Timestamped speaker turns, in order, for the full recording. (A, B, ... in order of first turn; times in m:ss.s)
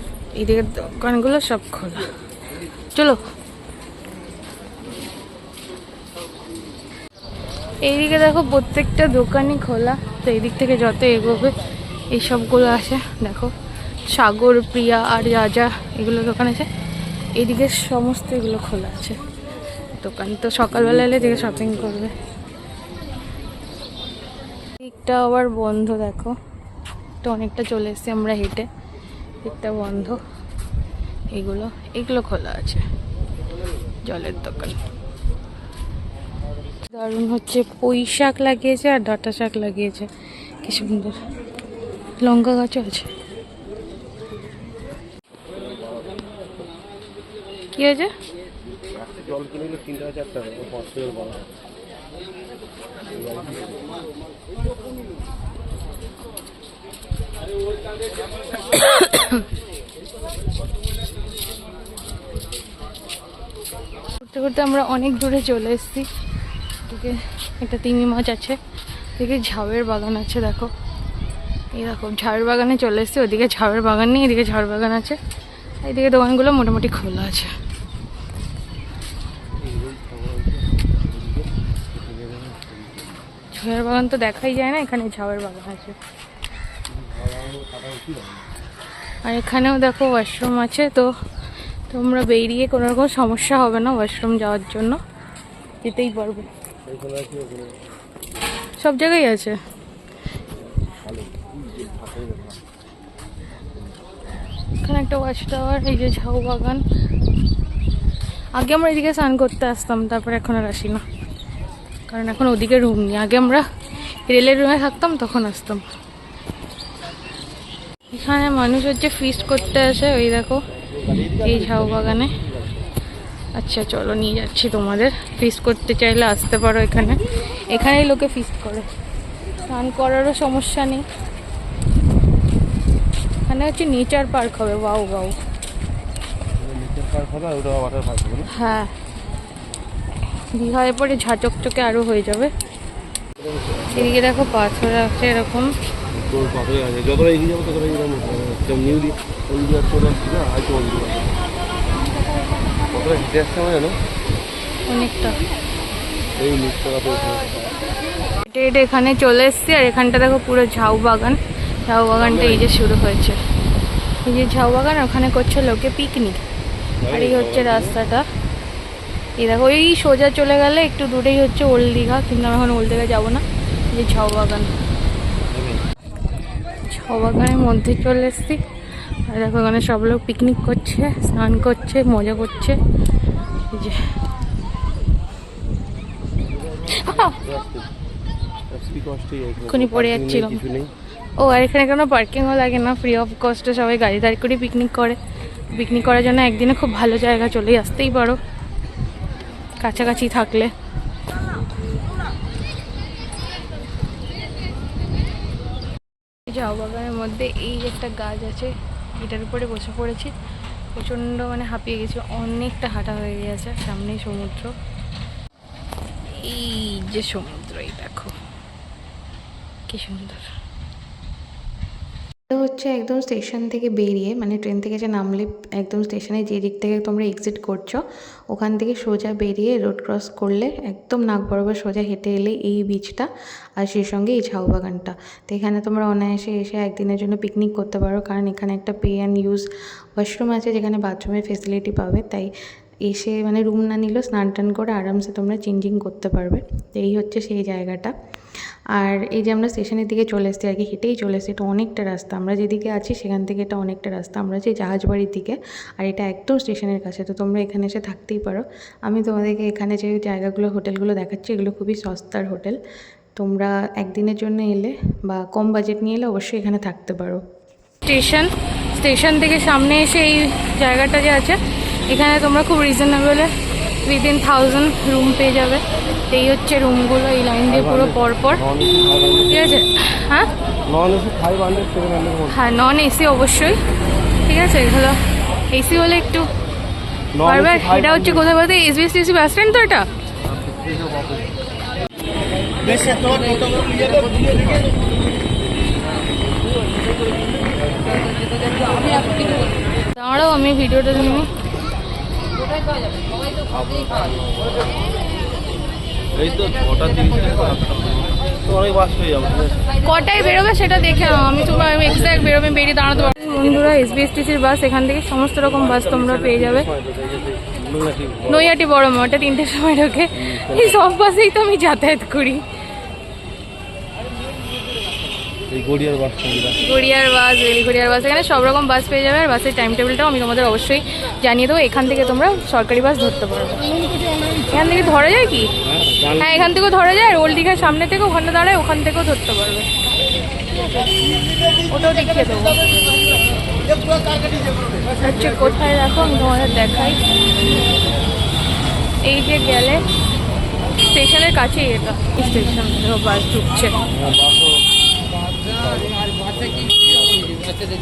0:00.4-0:02.1 A
0:02.9-0:03.2 A
0:07.8-0:11.6 A
0:12.1-0:13.5 A
0:14.1-0:16.7 A
0:17.4-0:19.2 A
0:20.0-0:22.1 A
0:20.7-0:22.1 B
0:24.8-0:26.4 A
0:27.2-0:28.7 A
0:29.4-0:30.2 A
0:31.3-0:32.9 A
0:34.0-0:34.8 A
0:36.9-0:40.1 A
0:40.6-0:41.2 A
0:42.2-0:43.1 A
0:45.5-0:46.4 B
0:47.8-0:48.1 A
0:48.9-0:51.5 B
0:53.1-0:53.8 B
0:58.7-0:59.4 A
1:04.2-1:06.1 A
1:06.8-1:08.6 A
1:09.2-1:10.7 A
1:11.7-1:15.2 A
1:15.8-1:17.5 A
1:19.6-1:23.2 B
1:23.5-1:26.0 A
1:26.9-1:28.5 B
1:29.2-1:31.1 A
1:31.9-1:35.0 A
1:35.8-1:36.5 A
1:36.9-1:37.8 B
1:38.8-1:39.6 A
1:40.6-1:42.6 B
1:44.8-1:46.8 A
1:48.6-1:51.0 A
1:52.1-1:53.7 A
1:54.2-1:55.9 A
1:58.1-2:00.6 A
2:01.0-2:02.8 B
2:01.4-2:02.3 A
2:03.6-2:08.9 A
2:09.7-2:11.0 A
2:13.5-2:15.4 A
2:16.6-2:18.5 B
2:18.5-2:18.9 A
2:20.5-2:22.5 A
2:23.4-2:24.2 B
2:24.0-2:25.7 A
2:26.2-2:31.4 B
2:32.9-2:34.0 B
2:34.9-2:35.4 A
2:36.4-2:37.8 B
2:38.4-2:43.4 A
2:42.2-2:42.6 B
2:44.2-2:46.4 A
2:47.0-2:48.0 B
2:47.1-2:48.3 A
2:49.4-2:54.7 A
2:55.5-2:55.8 B
2:56.9-2:58.6 A
2:59.3-3:02.8 A
3:03.7-3:04.0 A
3:06.9-3:07.9 B
3:07.0-3:07.4 A
3:08.7-3:10.9 B
3:09.7-3:10.6 A
3:11.4-3:15.2 A
3:15.7-3:18.4 A
3:19.8-3:20.7 A
3:26.5-3:30.3 A
3:31.0-3:34.7 A
3:32.4-3:34.7 C
3:36.4-3:37.1 A
3:37.1-3:38.3 C
3:39.9-3:40.4 C
3:42.5-3:48.0 C
3:48.5-4:02.5 C
4:03.1-4:08.1 C
4:09.0-4:22.8 C
4:23.4-4:27.4 C
4:28.1-4:31.6 C
4:32.1-4:33.5 C
4:32.2-4:32.6 A
4:34.0-4:37.0 C
4:37.0-4:38.6 A
4:37.7-4:39.8 B
4:39.5-4:40.5 A
4:40.9-4:42.6 B
4:42.5-4:43.8 A
4:44.5-4:45.2 A
4:45.7-4:46.5 A
4:47.3-4:48.5 B
4:47.4-4:50.1 A
4:50.5-4:51.5 B
4:52.9-4:54.8 B
5:00.1-5:01.5 A
5:03.7-5:04.6 B
5:06.3-5:10.0 B
5:10.0-5:16.9 A
5:15.6-5:18.7 B
5:18.5-5:22.6 A
5:20.4-5:21.0 B
5:25.7-5:26.8 B
5:26.8-5:33.9 A
5:34.7-5:35.7 A
5:35.8-5:36.8 B
5:36.4-5:39.9 A
5:41.8-5:42.8 A
5:45.2-5:47.2 A
5:49.2-5:50.1 A
5:51.0-5:54.0 A
5:54.2-5:54.8 B
5:55.7-5:57.8 B